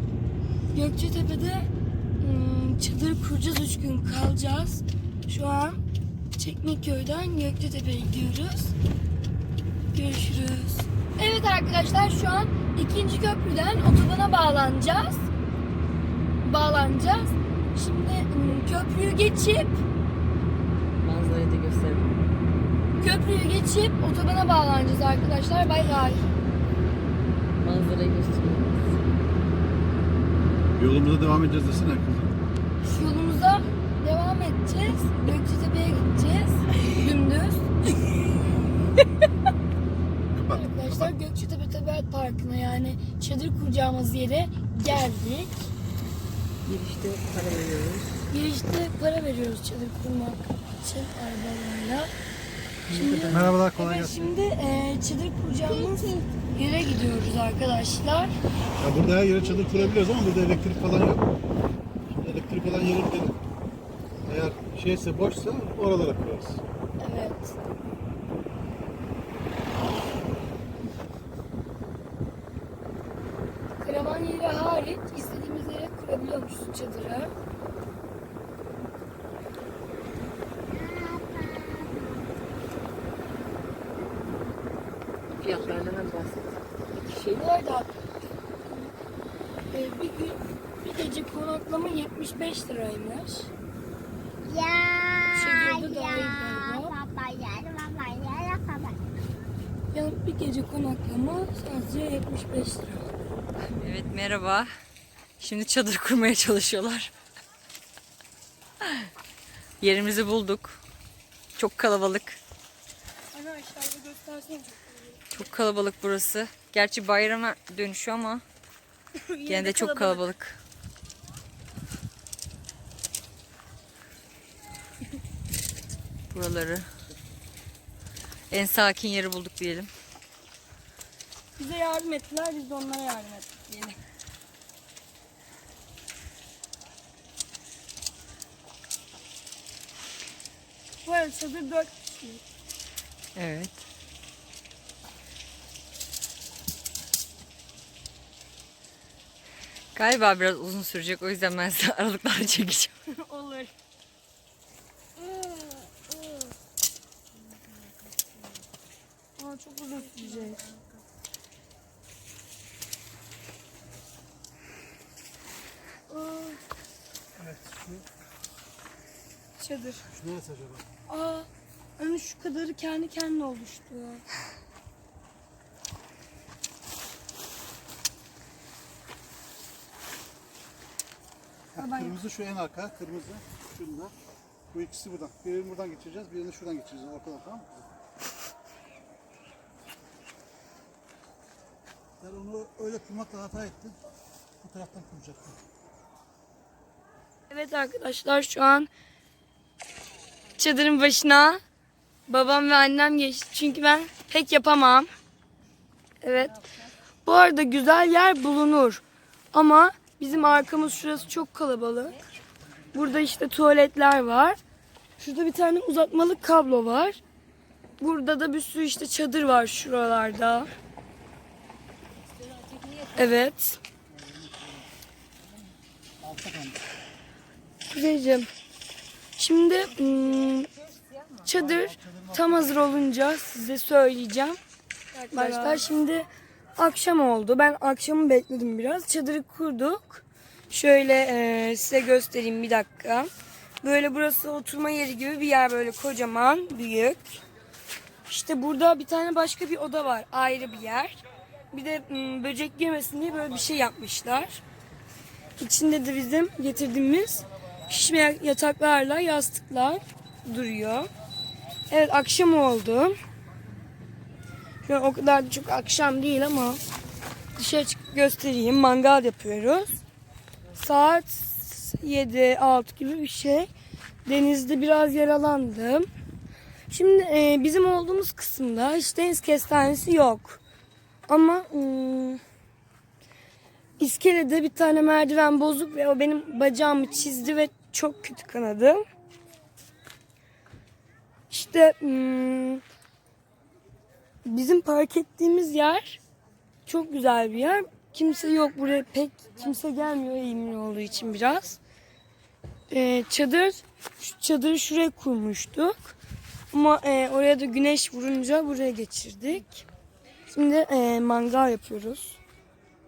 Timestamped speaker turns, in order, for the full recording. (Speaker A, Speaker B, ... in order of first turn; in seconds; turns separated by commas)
Speaker A: 0.7-1.7, Speaker A: 2.2-5.8, Speaker A: 6.3-8.7, Speaker A: 9.9-15.3, Speaker A: 16.4-19.8, Speaker B: 21.0-22.1, Speaker A: 23.0-26.2, Speaker B: 27.6-29.1, Speaker C: 30.7-32.3, Speaker A: 32.8-37.6, Speaker C: 40.3-41.1, Speaker A: 40.5-45.7, Speaker B: 46.6-48.1, Speaker A: 48.3-52.1, Speaker B: 52.9-53.5, Speaker A: 52.9-58.4, Speaker C: 53.3-54.3, Speaker D: 55.6-56.3, Speaker C: 58.8-61.3, Speaker A: 59.5-59.9, Speaker C: 62.1-63.4, Speaker C: 64.2-66.6, Speaker A: 67.0-67.5, Speaker A: 73.8-77.3, Speaker D: 80.7-82.1, Speaker B: 85.4-87.4, Speaker A: 87.1-87.9, Speaker A: 89.7-93.5, Speaker D: 94.4-99.0, Speaker A: 95.3-96.9, Speaker A: 99.9-103.1, Speaker B: 103.8-104.7, Speaker B: 105.4-107.1, Speaker B: 108.8-109.1, Speaker B: 109.8-110.8, Speaker B: 111.5-112.4, Speaker A: 113.3-115.2, Speaker B: 115.3-118.4, Speaker A: 119.1-120.3, Speaker B: 119.5-120.6, Speaker B: 126.3-126.9, Speaker B: 128.5-129.9, Speaker A: 131.6-134.0, Speaker A: 141.0-142.4, Speaker B: 143.3-143.8, Speaker B: 149.9-152.9, Speaker A: 153.1-153.7, Speaker D: 155.3-156.3, Speaker A: 159.4-160.7, Speaker A: 166.1-166.6, Speaker C: 167.3-168.0, Speaker A: 169.6-170.0, Speaker C: 170.1-170.9, Speaker A: 171.1-174.2, Speaker C: 181.7-184.1, Speaker A: 181.8-182.2, Speaker C: 184.7-187.9, Speaker C: 192.2-194.0, Speaker C: 194.6-195.6, Speaker A: 197.5-198.9, Speaker A: 200.6-201.6, Speaker A: 202.3-205.1, Speaker A: 206.2-206.7, Speaker A: 207.2-209.0, Speaker A: 209.5-212.2, Speaker A: 212.9-214.6, Speaker A: 215.2-217.2, Speaker A: 218.0-220.7, Speaker B: 222.3-223.4, Speaker A: 223.1-223.8, Speaker C: 224.1-224.9, Speaker C: 226.2-226.8, Speaker A: 227.9-228.5, Speaker A: 229.4-230.7, Speaker B: 230.1-231.5, Speaker A: 231.4-234.6, Speaker C: 231.5-232.9, Speaker B: 235.1-235.9, Speaker A: 235.3-243.3, Speaker A: 243.8-247.4, Speaker A: 248.3-251.2, Speaker A: 251.7-254.6, Speaker A: 255.6-261.1, Speaker A: 261.9-263.1, Speaker A: 264.8-266.8, Speaker A: 267.6-270.0, Speaker A: 270.7-273.7, Speaker A: 274.2-276.1, Speaker A: 276.9-280.6, Speaker A: 281.3-282.4, Speaker A: 284.0-289.0, Speaker A: 291.5-292.8, Speaker A: 294.4-296.2, Speaker A: 296.9-301.8, Speaker A: 302.9-306.1, Speaker A: 306.7-309.9, Speaker A: 310.5-312.4